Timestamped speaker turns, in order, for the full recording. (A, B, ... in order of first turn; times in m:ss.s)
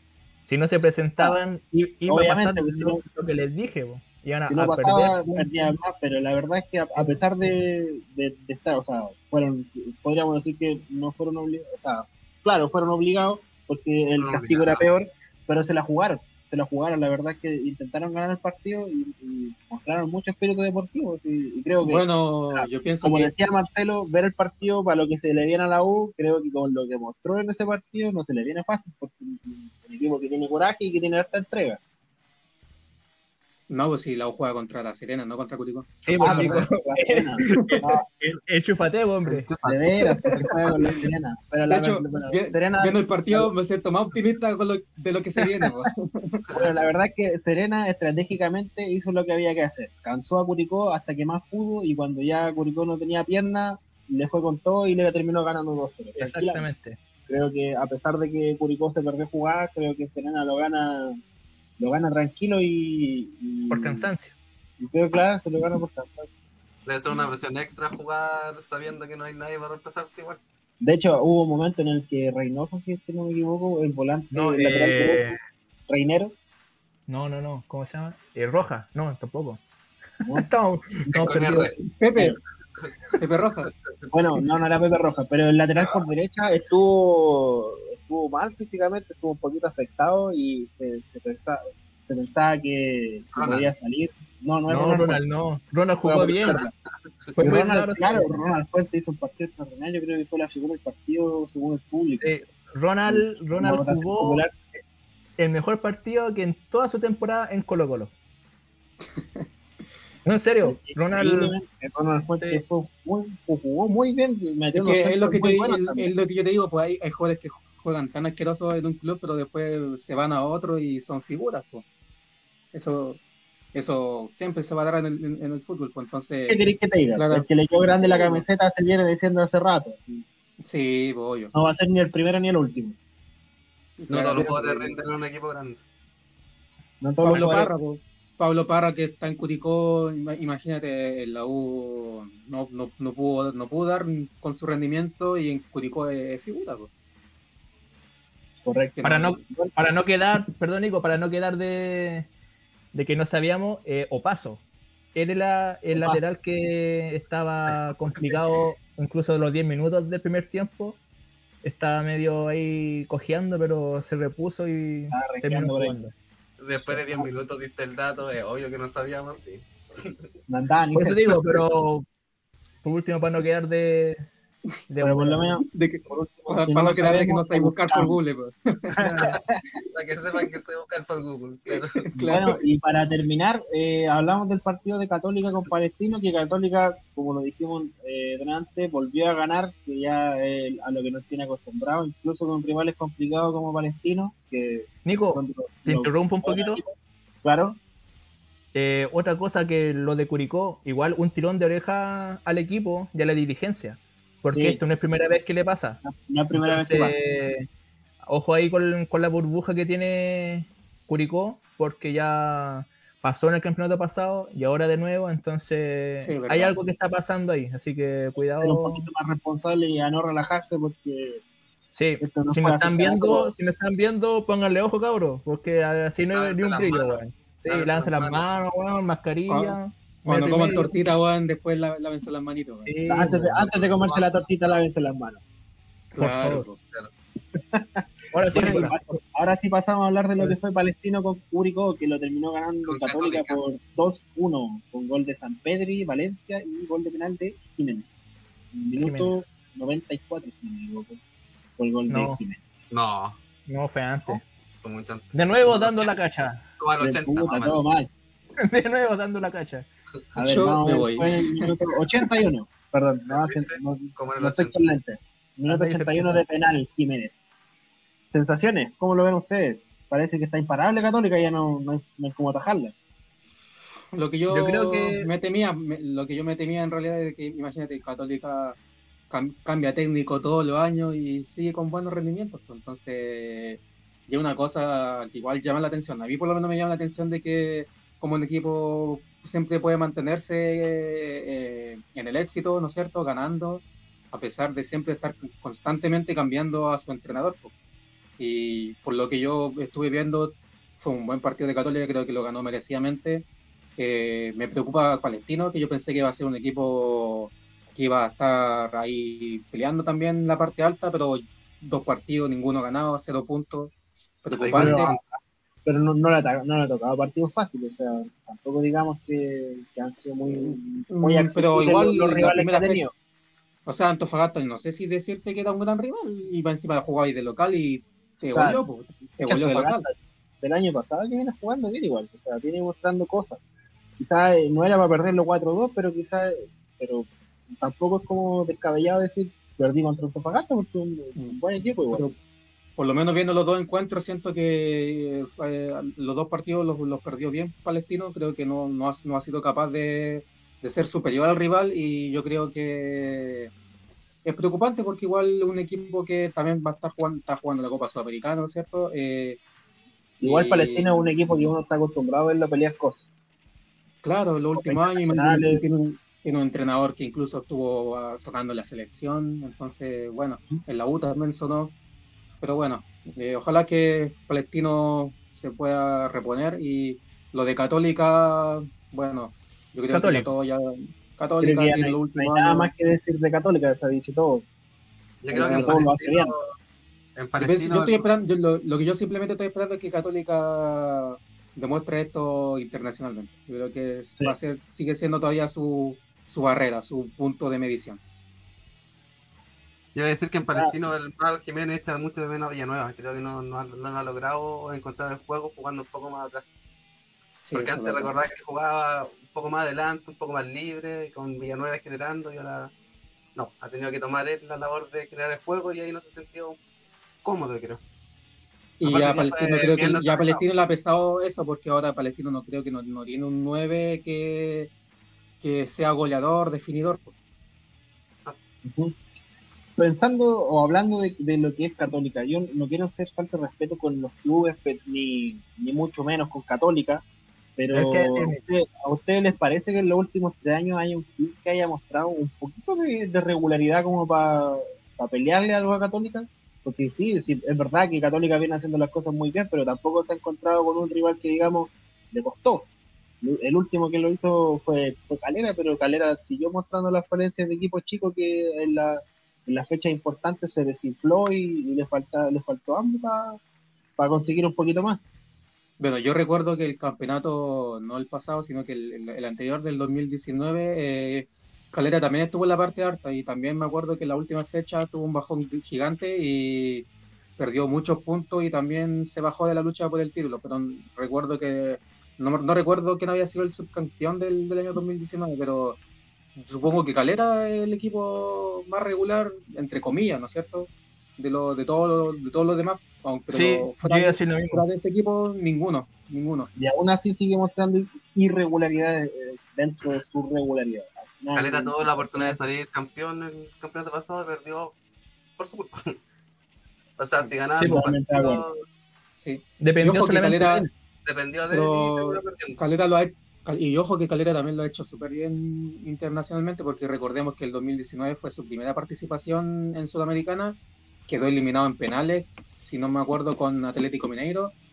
0:00.5-0:05.5 A
0:02.1-0:03.0 B
0:04.5-0:31.8 B
0:14.2-0:14.8 C
0:21.8-0:23.3 D
0:33.7-0:36.4 D
0:36.0-0:36.7 C
0:36.0-0:39.5 A
0:36.2-0:38.0 B
0:37.4-0:37.8 D
0:39.2-0:39.8 C
0:39.6-0:43.5 B
0:40.3-0:41.0 C
0:41.7-0:46.4 D
0:46.5-0:46.9 C
0:46.5-0:56.6 B
0:56.2-0:57.0 A
0:57.3-1:01.2 B
1:01.8-1:04.1 B
1:03.7-1:04.3 A
1:04.8-1:06.4 B
1:06.8-1:10.4 C
1:10.8-1:15.3 B
1:14.3-1:15.4 A
1:15.9-1:16.3 B
1:17.1-1:19.6 A
1:20.2-1:21.8 A
1:21.0-1:21.4 B
1:21.2-1:21.8 C
1:22.0-1:22.4 D
1:23.2-1:23.7 D
1:23.7-1:24.1 C
1:24.1-1:35.2 B
1:33.4-1:33.7 C
1:34.7-1:36.6 A
1:36.0-1:36.7 B
1:37.4-1:38.4 A
1:37.4-1:42.3 B
1:42.2-1:44.4 A
1:43.1-1:44.6 B
1:45.4-1:48.1 A
1:49.2-1:49.4 D
1:50.2-1:51.5 A
1:50.6-1:56.1 B
1:54.7-2:01.8 D
2:02.7-2:03.2 D
2:03.7-2:06.6 D
2:06.5-2:10.2 B
2:07.2-2:08.4 D
2:10.6-2:11.5 D
2:11.5-2:13.0 B
2:14.0-2:14.6 D
2:14.1-2:15.8 C
2:14.1-2:14.9 B
2:17.0-2:17.7 B
2:17.2-2:26.9 D
2:28.6-2:29.7 B
2:29.0-2:29.4 D
2:29.0-2:32.3 A
2:32.9-2:34.6 A
2:35.1-2:41.0 A
2:35.9-2:36.3 B
2:41.6-2:46.1 A
2:45.1-2:46.0 B
2:46.6-2:50.2 C
2:50.5-2:51.3 B
2:50.9-2:52.0 A
2:52.8-2:54.3 A
2:54.9-2:55.5 A
2:55.0-2:58.2 B
2:55.7-2:59.2 D
2:59.0-2:59.6 B
2:59.0-3:02.1 C
3:02.1-3:02.6 D
3:02.1-3:17.8 B
3:15.0-3:16.8 A
3:18.7-3:26.0 A
3:24.5-3:24.8 B
3:26.0-3:27.2 B
3:26.5-3:27.6 A
3:28.2-3:39.0 A
3:36.2-3:36.7 D
3:38.6-3:41.4 B
3:42.0-3:50.9 A
3:42.2-3:43.5 B
3:46.3-3:48.4 C
3:49.5-3:52.9 D
3:52.8-3:53.6 A
3:53.0-3:55.4 B
3:53.5-3:54.4 C
3:56.1-3:56.6 A
3:56.2-3:56.8 D
3:56.8-3:57.1 C
3:57.5-4:11.2 B
3:58.3-3:59.0 A
4:02.8-4:03.6 C
4:09.0-4:09.3 A
4:11.8-4:12.9 B
4:12.1-4:12.4 A
4:12.9-4:13.4 C
4:13.7-4:14.4 A
4:14.8-4:16.1 C
4:15.3-4:16.6 A
4:16.8-4:17.8 C
4:17.0-4:18.1 B
4:18.6-4:19.8 A
4:20.4-4:27.4 B
4:20.4-4:21.4 D
4:23.3-4:24.7 C
4:25.7-4:26.4 A
4:28.3-4:32.9 B
4:34.1-4:38.8 D
4:34.5-4:35.3 A
4:39.3-4:57.7 D
4:58.4-5:03.4 D
5:04.0-5:15.1 D
5:14.5-5:15.2 C
5:14.7-5:15.1 B
5:15.8-5:23.1 B
5:20.5-5:23.0 D
5:23.8-5:30.0 D
5:28.5-5:28.8 B
5:29.4-5:33.6 B
5:34.2-5:42.2 B
5:42.1-5:42.4 D
5:43.0-5:53.7 D
5:54.4-5:59.6 D
6:00.4-6:03.3 B
6:00.4-6:01.1 D
6:04.2-6:11.9 D
6:04.8-6:05.8 B
6:12.6-6:22.9 D
6:20.1-6:20.5 A
6:21.6-6:24.6 B
6:25.4-6:26.7 C
6:25.5-6:26.5 B
6:25.6-6:26.0 D
6:27.4-6:28.2 C
6:27.6-6:38.2 D
6:40.1-6:46.6 C
6:40.6-6:40.9 B
6:47.6-6:48.3 D
6:47.7-6:52.9 C
6:53.6-6:56.8 C
6:57.4-6:58.0 C
6:59.0-7:04.9 D
6:59.0-7:00.6 C
7:05.6-7:07.3 D
7:08.8-7:09.2 B
7:10.0-7:17.2 B
7:17.8-7:32.9 B
7:17.9-7:18.6 A
7:33.4-7:43.6 B
7:44.2-7:45.2 B
7:46.0-7:57.1 D
7:57.6-8:06.0 D
8:06.6-8:16.7 D
8:13.5-8:14.8 A
8:16.8-8:22.6 B
8:21.5-8:24.9 C
8:25.6-8:26.2 C
8:27.2-8:28.8 C
8:27.8-8:28.0 A
8:27.8-8:28.6 B
8:29.4-8:30.9 D
8:29.8-8:30.9 A
8:31.2-8:32.8 C
8:31.7-8:44.7 D